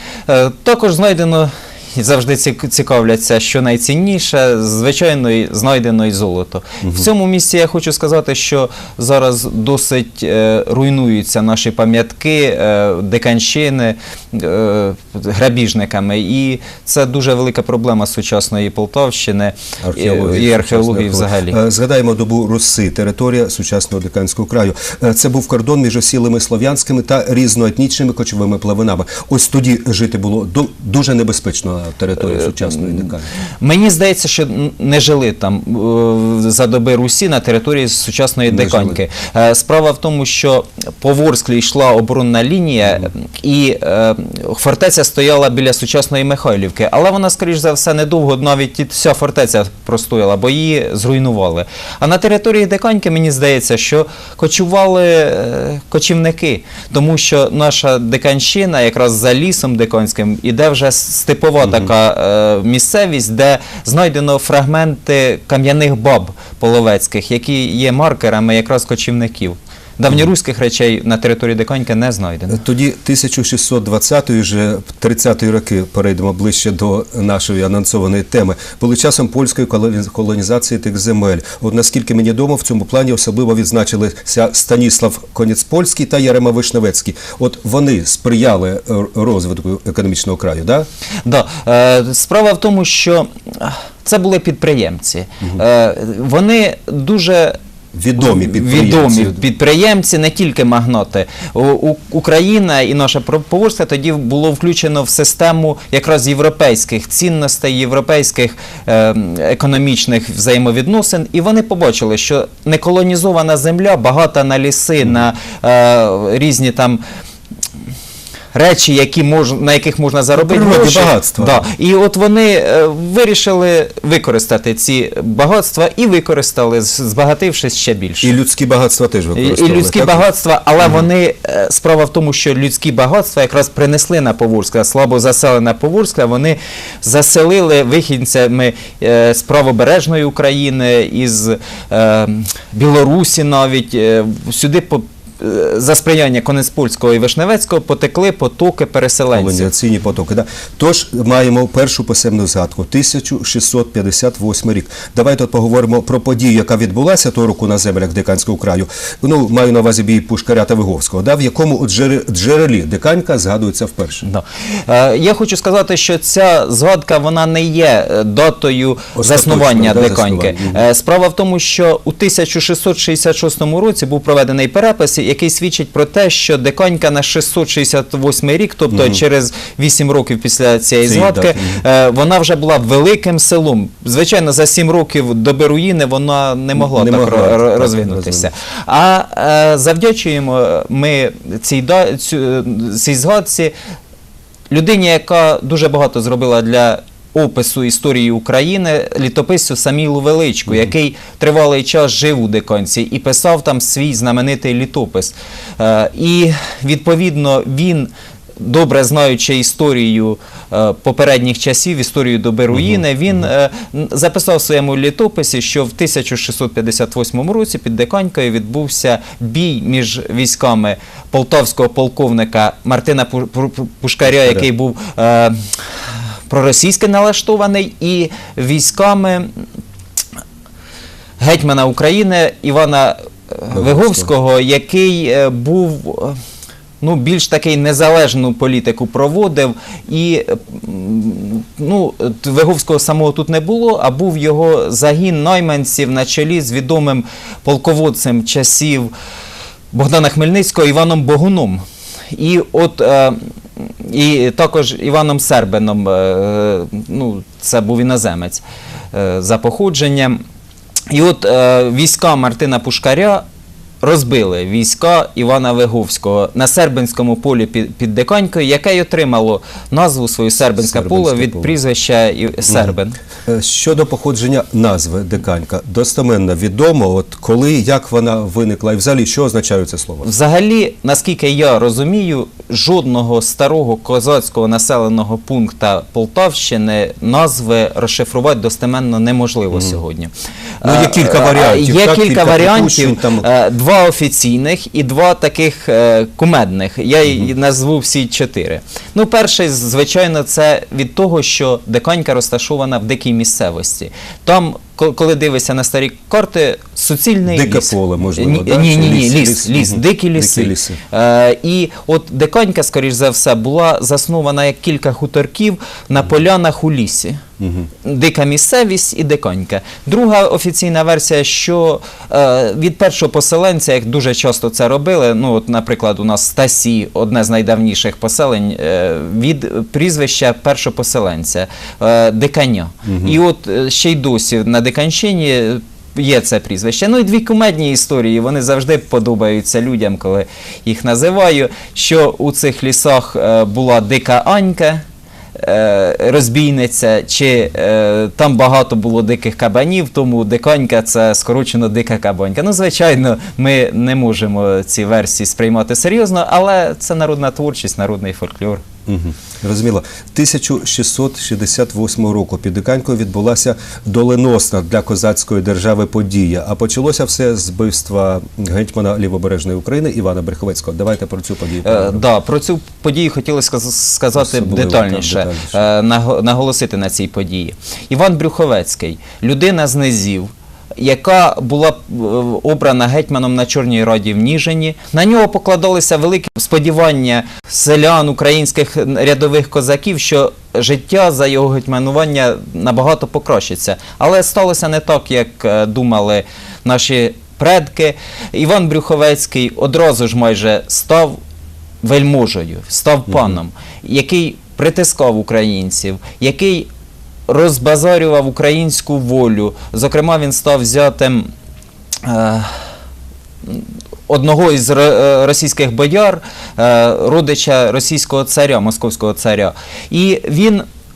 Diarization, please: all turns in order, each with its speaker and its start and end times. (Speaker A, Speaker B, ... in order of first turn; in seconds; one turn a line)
Speaker A: 0.3-21.6
Speaker B: 19.8-33.3
Speaker A: 32.2-72.6
Speaker B: 38.5-39.0
Speaker B: 61.6-61.9
Speaker B: 72.5-90.9
Speaker A: 91.2-97.6
Speaker B: 97.9-99.4
Speaker A: 98.2-117.0
Speaker A: 118.5-128.3
Speaker B: 120.3-121.6
Speaker B: 128.2-130.2
Speaker A: 129.3-149.7
Speaker B: 149.3-164.3
Speaker A: 164.2-193.7
Speaker B: 169.1-170.8
Speaker B: 178.9-179.2
Speaker B: 181.0-181.8
Speaker B: 186.7-188.5
Speaker A: 194.7-229.5
Speaker B: 224.2-224.6
Speaker A: 231.4-236.4
Speaker B: 233.7-234.3
Speaker A: 237.0-249.1
Speaker A: 249.9-260.4
Speaker A: 261.1-263.4
Speaker A: 264.0-273.2
Speaker B: 270.8-271.7
Speaker B: 272.7-272.9
Speaker B: 273.4-280.3
Speaker A: 280.2-317.4
Speaker B: 290.8-293.4
Speaker B: 307.5-311.0
Speaker B: 317.6-317.9
Speaker A: 318.0-345.0
Speaker B: 333.1-333.4
Speaker A: 345.6-358.8
Speaker B: 359.1-372.2
Speaker A: 371.8-401.4
Speaker B: 374.4-375.8
Speaker A: 402.0-406.9
Speaker B: 403.3-403.5
Speaker A: 407.5-411.5
Speaker A: 412.2-412.9
Speaker A: 413.6-420.9